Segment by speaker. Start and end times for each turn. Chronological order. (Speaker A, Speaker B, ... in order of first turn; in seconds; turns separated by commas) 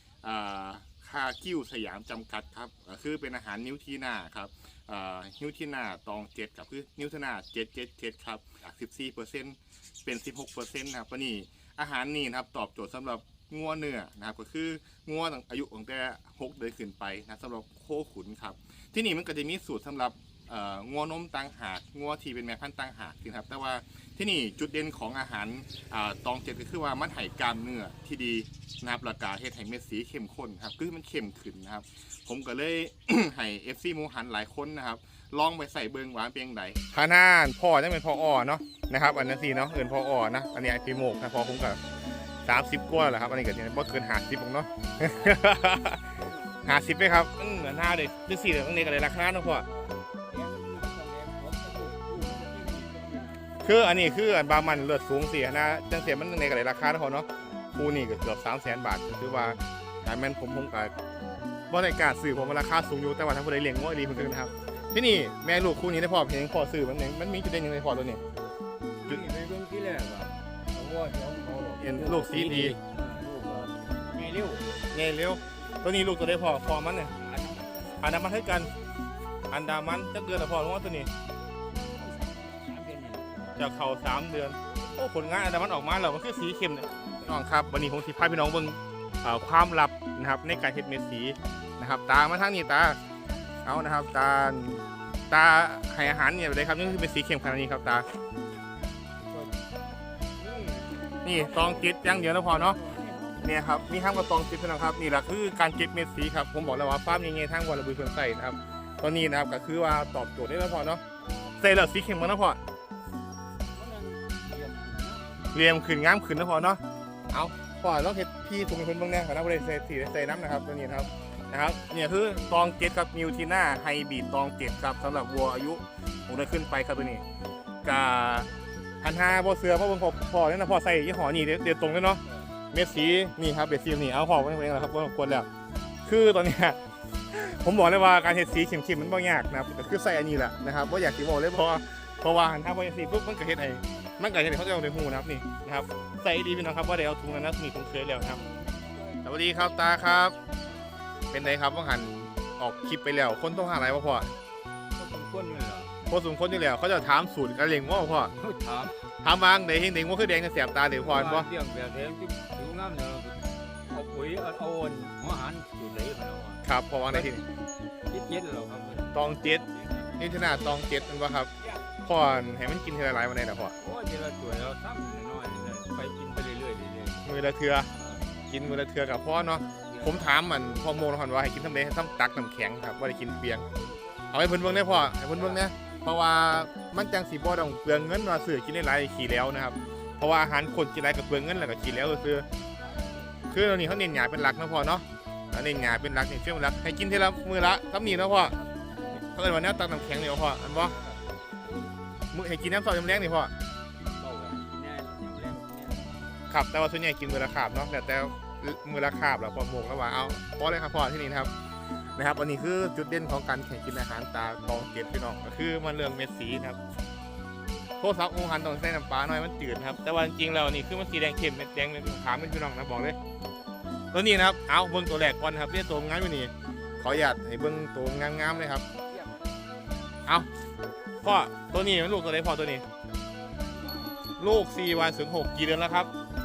Speaker A: 0.2-41.8, Speaker A: 42.4-49.7, Speaker B: 46.2-46.6, Speaker B: 50.3-53.5, Speaker A: 53.6-60.9, Speaker A: 61.7-68.2, Speaker B: 69.0-74.7, Speaker A: 71.8-72.8, Speaker A: 74.9-77.1, Speaker B: 77.2-78.2, Speaker A: 78.0-78.7, Speaker A: 79.5-81.1, Speaker B: 81.9-83.6, Speaker A: 83.5-93.0, Speaker A: 93.6-98.0, Speaker B: 99.2-99.5, Speaker B: 100.4-103.4, Speaker A: 101.2-102.8, Speaker A: 103.4-111.0, Speaker A: 111.6-112.6, Speaker B: 113.7-115.4, Speaker A: 115.5-127.2, Speaker A: 127.8-128.5, Speaker A: 129.0-135.5, Speaker A: 136.0-136.8, Speaker A: 137.3-148.4, Speaker B: 148.3-149.2, Speaker A: 149.2-150.3, Speaker A: 151.3-154.3, Speaker B: 154.9-155.9, Speaker A: 156.1-158.3, Speaker B: 158.3-158.9, Speaker A: 159.2-161.5, Speaker B: 160.9-167.4, Speaker A: 166.6-167.4, Speaker B: 168.1-170.1, Speaker A: 169.1-169.7, Speaker A: 170.2-171.5, Speaker A: 172.0-173.7, Speaker B: 173.8-177.2, Speaker A: 177.2-177.9, Speaker B: 177.9-178.3, Speaker A: 178.5-183.7, Speaker B: 179.9-180.3, Speaker A: 184.3-192.4, Speaker A: 193.5-198.6, Speaker A: 199.3-201.0, Speaker A: 202.3-203.5, Speaker B: 204.2-206.2, Speaker A: 206.5-211.5, Speaker A: 212.1-216.8, Speaker A: 218.0-223.2, Speaker A: 224.1-228.8, Speaker B: 229.1-229.4, Speaker A: 231.2-232.9, Speaker A: 234.4-236.1